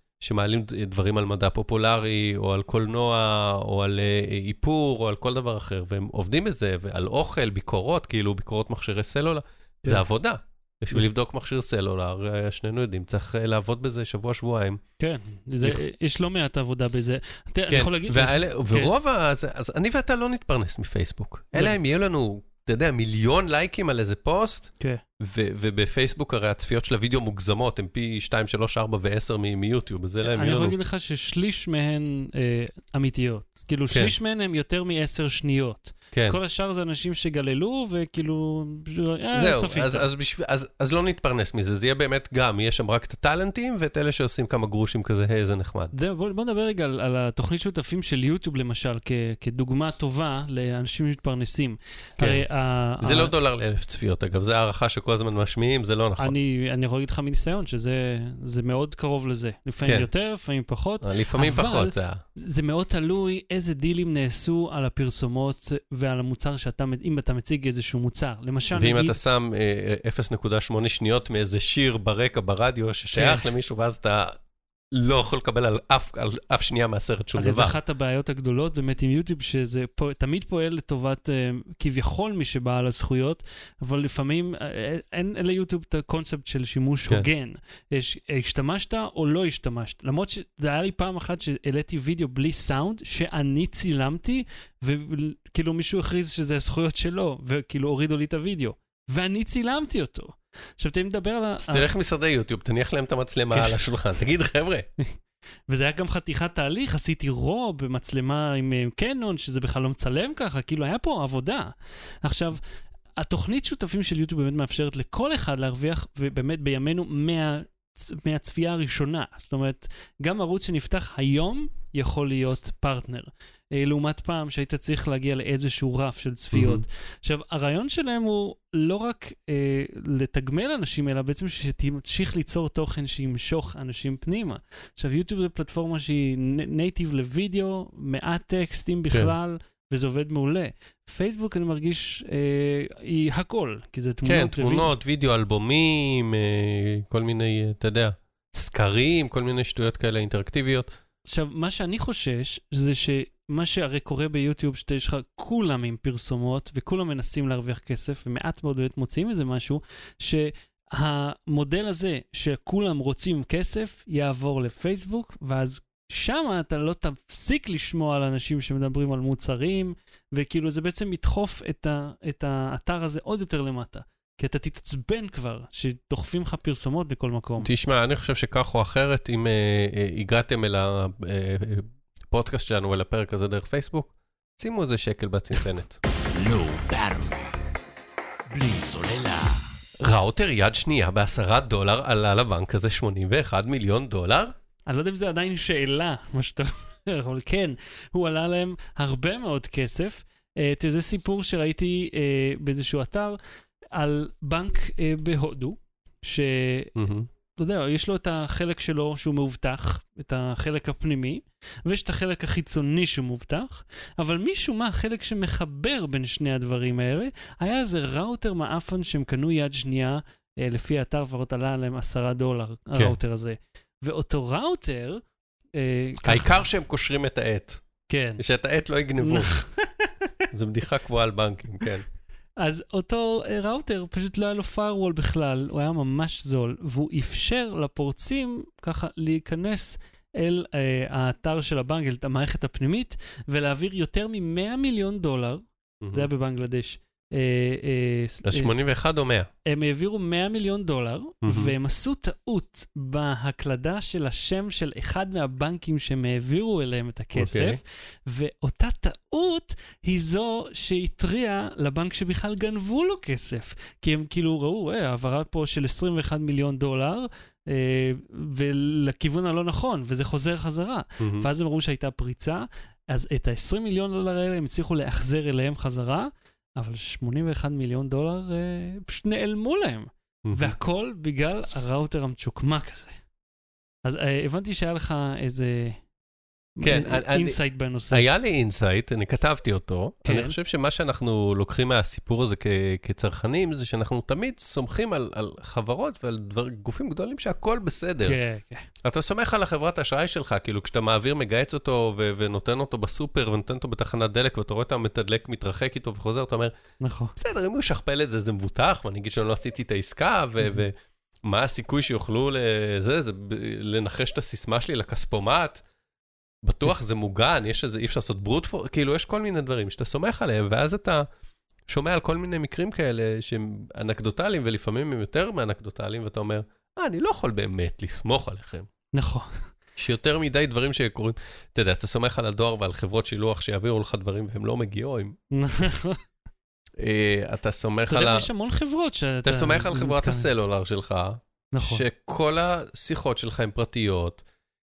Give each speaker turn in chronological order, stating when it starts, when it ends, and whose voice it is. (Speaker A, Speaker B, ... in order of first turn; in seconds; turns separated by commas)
Speaker A: 0.2-14.8, Speaker B: 15.0-18.9, Speaker A: 17.7-30.8, Speaker B: 30.2-40.0, Speaker A: 36.1-36.4, Speaker A: 39.4-45.9, Speaker B: 45.9-53.3, Speaker A: 52.2-52.5, Speaker A: 53.0-56.4, Speaker B: 56.2-69.2, Speaker A: 61.0-62.2, Speaker A: 68.8-74.4, Speaker B: 73.2-73.5, Speaker A: 74.9-77.8, Speaker B: 77.4-101.9, Speaker A: 101.6-104.9, Speaker B: 105.7-112.6, Speaker B: 113.2-144.9, Speaker A: 126.5-126.8, Speaker A: 144.3-150.9, Speaker B: 151.3-177.7, Speaker A: 177.6-186.0, Speaker C: 186.3-187.7, Speaker C: 188.5-189.8, Speaker A: 190.0-194.5, Speaker B: 194.9-203.4, Speaker B: 203.9-206.9, Speaker A: 207.0-207.3, Speaker B: 207.6-225.2, Speaker B: 225.8-226.6, Speaker A: 226.2-227.8, Speaker B: 228.1-228.4, Speaker A: 228.4-229.6, Speaker B: 229.2-230.4, Speaker A: 230.5-232.1, Speaker B: 232.6-248.7, Speaker A: 246.0-246.3, Speaker A: 248.4-249.5, Speaker B: 249.7-283.2, Speaker A: 251.4-251.7, Speaker A: 257.4-257.8, Speaker A: 271.2-271.5, Speaker A: 280.4-280.8, Speaker B: 284.1-286.0, Speaker B: 286.8-288.2, Speaker A: 286.8-287.6, Speaker A: 288.1-298.4, Speaker B: 290.2-290.6, Speaker B: 298.2-298.9, Speaker A: 299.0-306.7, Speaker B: 307.0-307.3, Speaker A: 307.4-315.8, Speaker A: 316.6-321.3, Speaker A: 321.9-328.9, Speaker B: 329.1-329.7, Speaker A: 330.0-335.4, Speaker B: 335.5-336.2, Speaker A: 337.0-338.5, Speaker B: 338.1-340.5, Speaker A: 339.4-344.4, Speaker B: 341.7-342.0